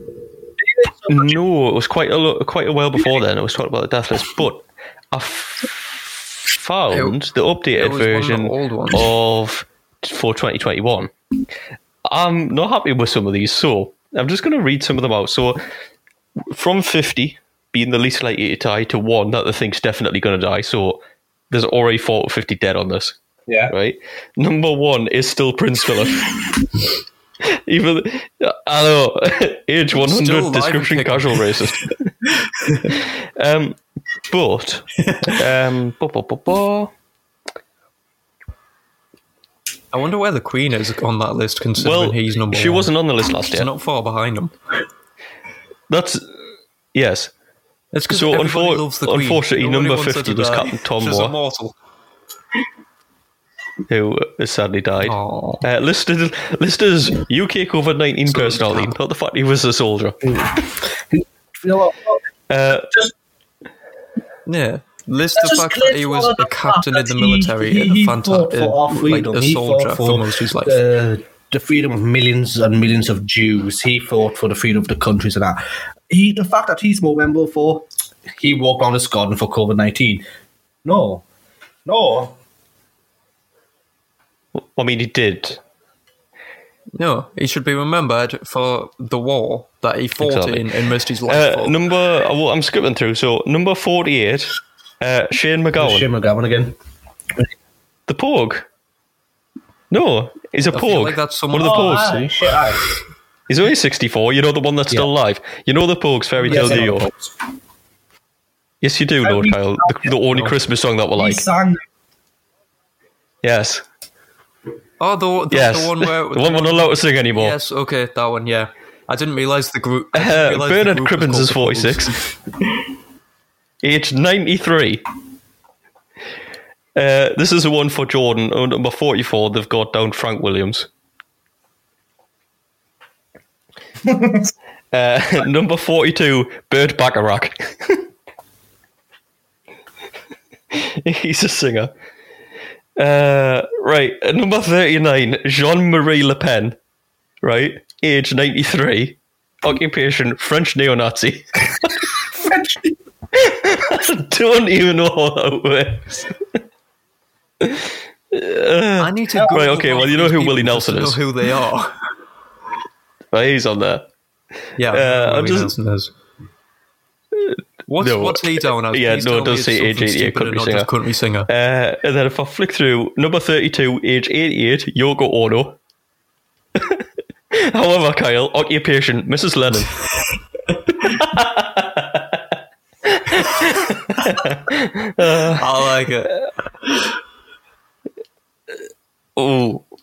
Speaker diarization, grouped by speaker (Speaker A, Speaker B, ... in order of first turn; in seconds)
Speaker A: 0.7-1.3, 23.5-23.7, 60.2-62.2, 65.4-80.2, 80.8-81.2, 81.8-82.3, 95.8-96.8, 101.6-102.8, 106.5-107.3, 109.2-110.1, 111.2-111.8, 134.1-134.5, 152.4-152.9, 159.4-159.8
Speaker B: 1.1-11.1, 12.1-15.6, 16.5-23.2, 23.7-26.4, 27.4-31.9, 32.9-36.9, 41.8-43.7, 45.9-46.2, 46.9-47.3, 48.1-51.3, 53.9-60.2, 62.5-62.9, 84.5-85.6, 90.2-90.7, 91.3-96.1, 98.1-98.7, 99.9-102.3, 103.5-107.1, 108.8-111.4, 113.4-113.8, 115.5-117.5, 120.2-122.2, 123.8-125.0, 127.0-130.9, 134.9-138.1, 140.7-141.9, 143.0-146.8, 147.4-152.2, 153.3-156.2, 157.6-161.2, 163.3-164.1, 164.9-165.7, 167.3-170.9, 171.5-175.8, 177.5-180.1, 181.0-182.3, 183.1-185.7, 189.4-189.9
Speaker C: 7.8-9.1, 29.9-31.6, 32.4-32.9, 35.0-35.4, 39.9-42.9, 43.5-44.5, 47.9-51.8, 55.0-55.6, 58.3-59.0, 64.5-70.8, 87.0-91.8, 100.7-102.3, 106.4-106.9, 115.0-122.3, 159.0-162.0, 164.8-166.1, 167.9-171.5, 185.6-186.3